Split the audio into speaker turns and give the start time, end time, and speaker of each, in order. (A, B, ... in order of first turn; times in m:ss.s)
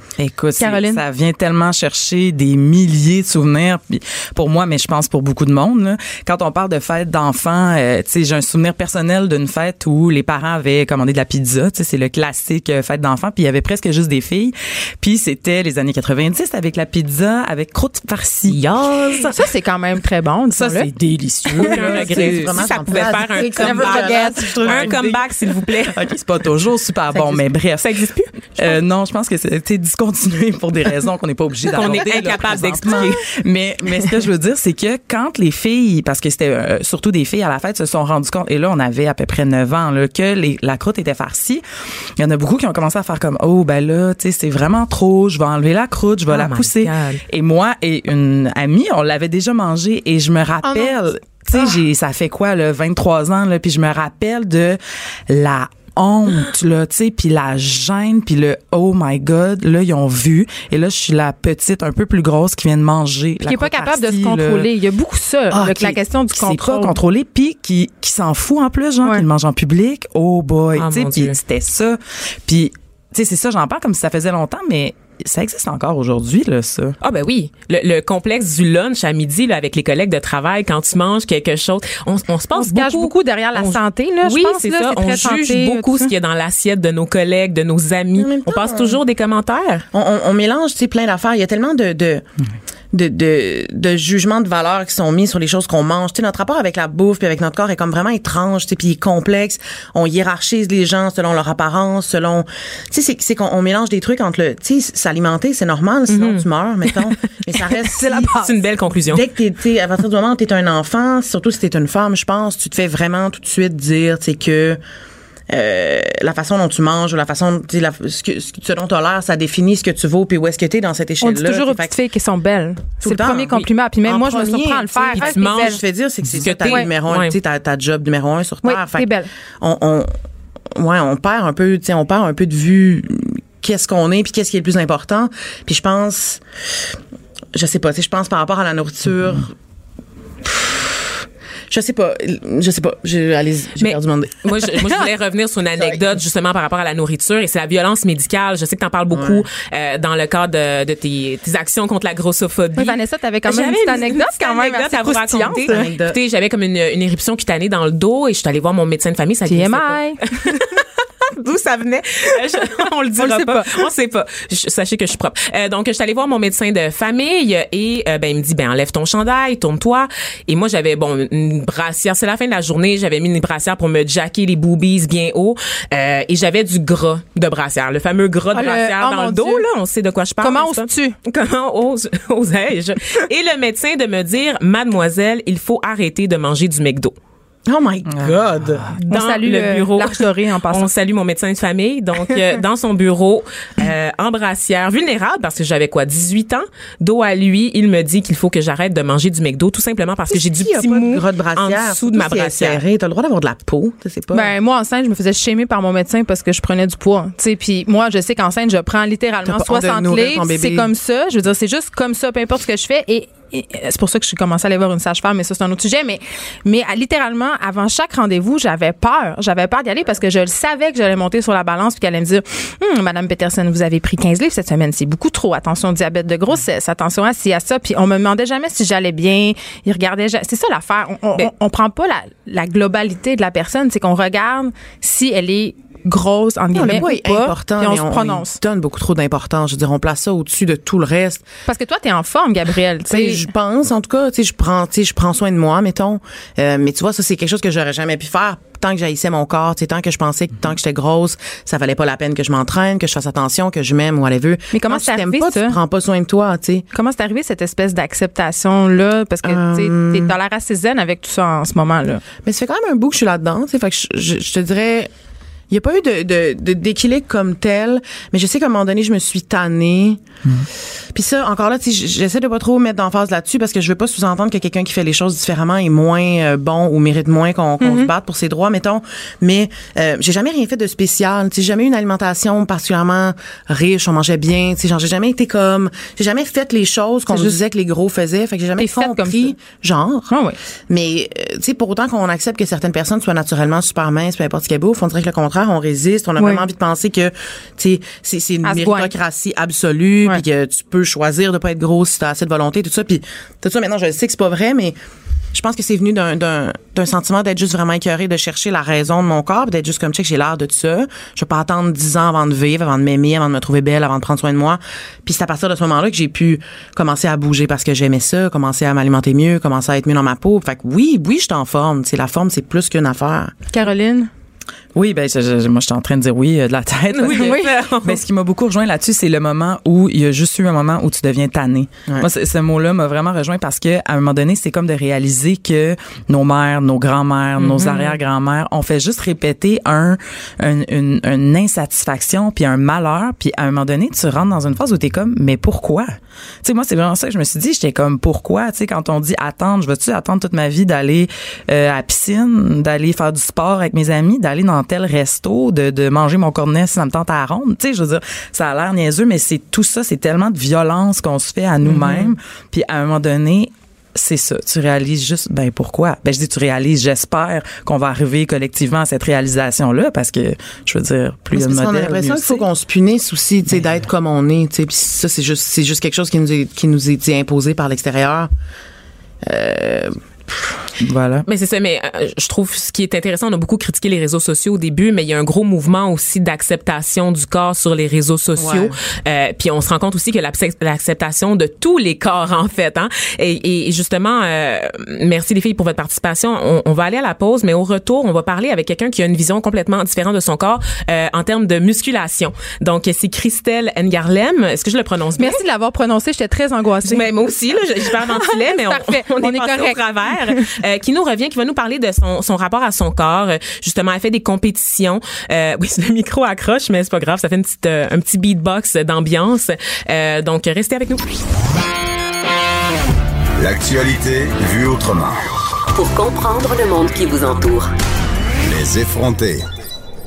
0:00.2-0:18.6 A
0:00.6-0:01.0 B
0:18.5-0:19.4 C
0:19.2-0:20.9 B
0:20.5-0:25.0 A
0:21.5-0:26.0 C
0:21.6-0:25.0 D
0:23.6-0:24.8 B
0:25.9-0:27.9 A
0:27.1-0:28.8 C
0:28.5-0:41.6 A
0:31.6-0:33.2 C
0:42.2-1:04.7 A
0:46.3-0:47.2 C
0:50.6-0:50.9 B
1:03.4-1:07.0 B
1:05.5-1:17.0 A
1:10.7-1:11.4 C
1:17.0-1:29.8 C
1:22.6-1:26.1 B
1:28.2-1:29.0 D
1:29.9-1:32.2 D
1:32.9-1:48.4 D
1:46.1-1:49.3 C
1:49.1-1:54.8 D
1:55.5-2:01.9 D
2:01.2-2:05.8 B
2:03.0-2:09.1 D
2:05.2-2:07.4 C
2:08.6-2:09.3 B
2:09.6-2:10.1 D
2:10.8-2:16.4 D
2:17.5-2:19.5 D
2:20.4-2:25.0 D
2:23.8-3:07.1 C
2:25.8-2:26.1 D
2:29.1-2:29.5 D
2:32.8-2:35.9 B
2:35.7-2:36.2 D
2:39.4-2:40.6 B
2:43.2-2:43.8 B
2:58.5-2:59.6 B
3:00.4-3:01.1 B
3:07.7-3:09.0 D
3:08.1-3:08.9 A
3:09.1-3:22.8 C
3:09.1-3:10.9 B
3:20.3-3:24.5 D
3:24.3-3:58.6 B
3:29.4-3:30.9 D
3:56.7-4:01.4 D
4:01.6-4:03.5 B
4:03.1-4:16.8 D
4:14.7-4:15.8 B
4:16.9-4:22.2 B
4:19.4-4:20.3 D
4:22.4-4:25.1 D
4:25.7-4:30.2 D
4:31.1-4:50.3 D
4:37.8-4:38.1 B
4:47.3-4:47.6 B
4:48.8-4:49.6 B
4:50.3-4:50.6 B
4:50.9-5:05.0 D
4:58.6-4:59.1 B
5:05.5-5:23.5 D
5:23.7-5:24.3 B
5:24.9-6:12.6 A
5:27.1-5:28.2 C
5:27.3-5:27.7 B
5:37.6-5:38.2 C
6:01.9-6:02.3 D
6:11.5-6:18.5 D
6:19.4-6:20.6 D
6:21.0-6:21.4 A
6:21.5-6:45.6 C
6:28.6-6:28.9 D
6:45.4-6:47.3 B
6:47.0-7:01.3 C
6:48.1-6:50.6 B
7:03.6-7:05.4 E
7:05.9-7:07.9 F
7:08.6-7:09.6 E